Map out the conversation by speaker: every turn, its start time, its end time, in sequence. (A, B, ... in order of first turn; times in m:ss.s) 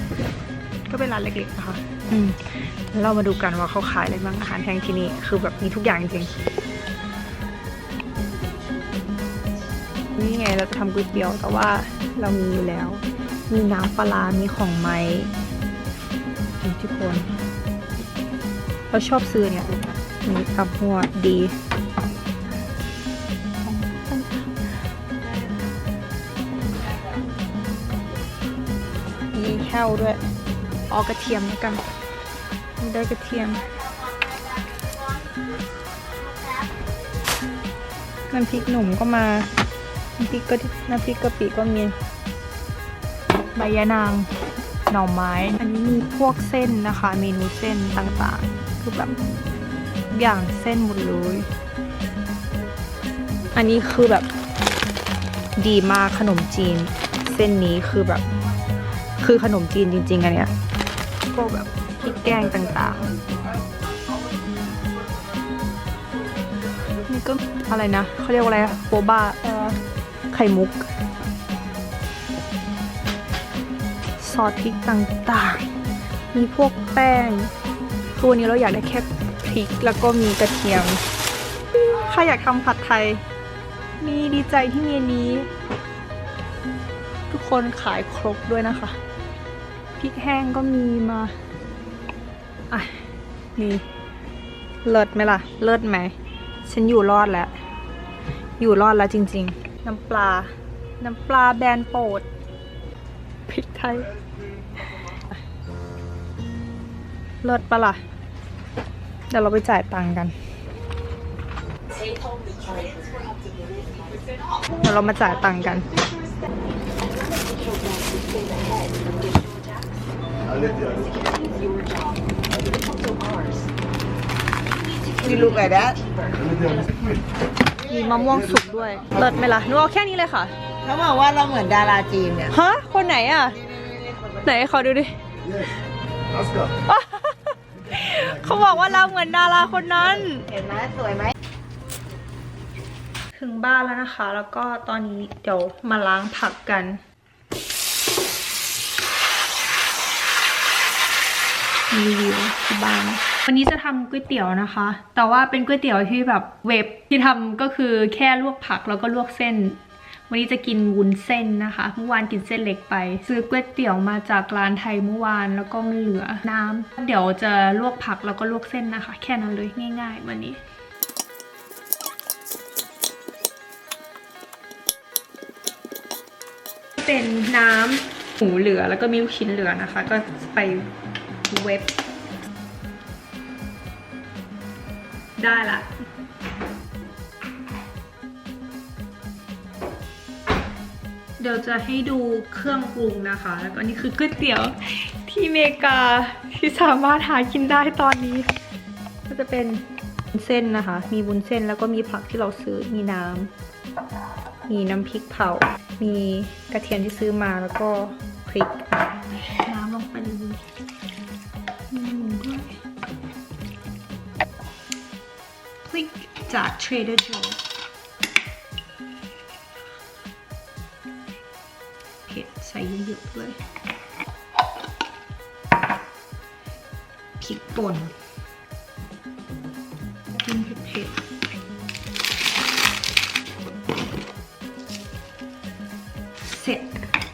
0:00.9-0:06.3 A
0:10.2-0:15.3 A
0:16.6-0:17.3 A
0:18.9-0:21.5 A
0:23.6-0:24.5 A
0:29.3-0:30.2 A
0:30.9-0:31.8 A
0:32.8-0:33.6 A
0:34.1-0:34.6 B
0:38.3-0:39.5 A
0:40.2-0:42.0 A
0:43.6-0:44.3 A
0:44.9-0:49.2 A
0:50.1-0:51.5 A
0:53.5-0:54.3 A
0:55.6-0:58.2 A
0:59.2-1:00.5 A
1:01.3-1:03.1 A
1:07.0-1:09.8 A
1:10.3-1:10.9 A
1:14.2-1:15.7 A
1:16.3-1:17.5 A
1:18.2-1:21.0 A
1:21.7-1:23.2 A
1:24.0-1:25.5 A
1:27.3-1:29.0 A
1:30.0-1:31.3 A
1:32.7-1:33.0 A
1:33.6-1:33.8 A
1:34.8-1:36.1 A
1:36.6-1:37.5 A
1:38.6-1:42.3 A
1:43.5-1:44.1 A
1:47.4-1:48.0 A
1:49.3-1:50.3 A
1:54.8-1:55.9 A
2:05.1-2:06.0 B
2:07.8-2:10.5 A
2:10.8-2:12.5 B
2:12.5-2:13.6 A
2:14.4-2:15.6 A
2:16.9-2:20.5 A
2:20.5-2:21.3 B
2:23.3-2:27.0 A
2:31.9-2:50.6 A
2:57.0-3:00.9 A
3:01.5-3:02.0 A
3:05.4-3:05.9 A
3:11.4-3:18.5 A
3:19.3-3:23.5 A
3:24.6-3:30.6 A
3:31.9-3:32.7 A
3:35.9-3:37.6 A
3:42.2-3:43.6 A
3:47.4-3:48.1 A
3:50.3-3:51.2 A
3:56.5-3:56.9 A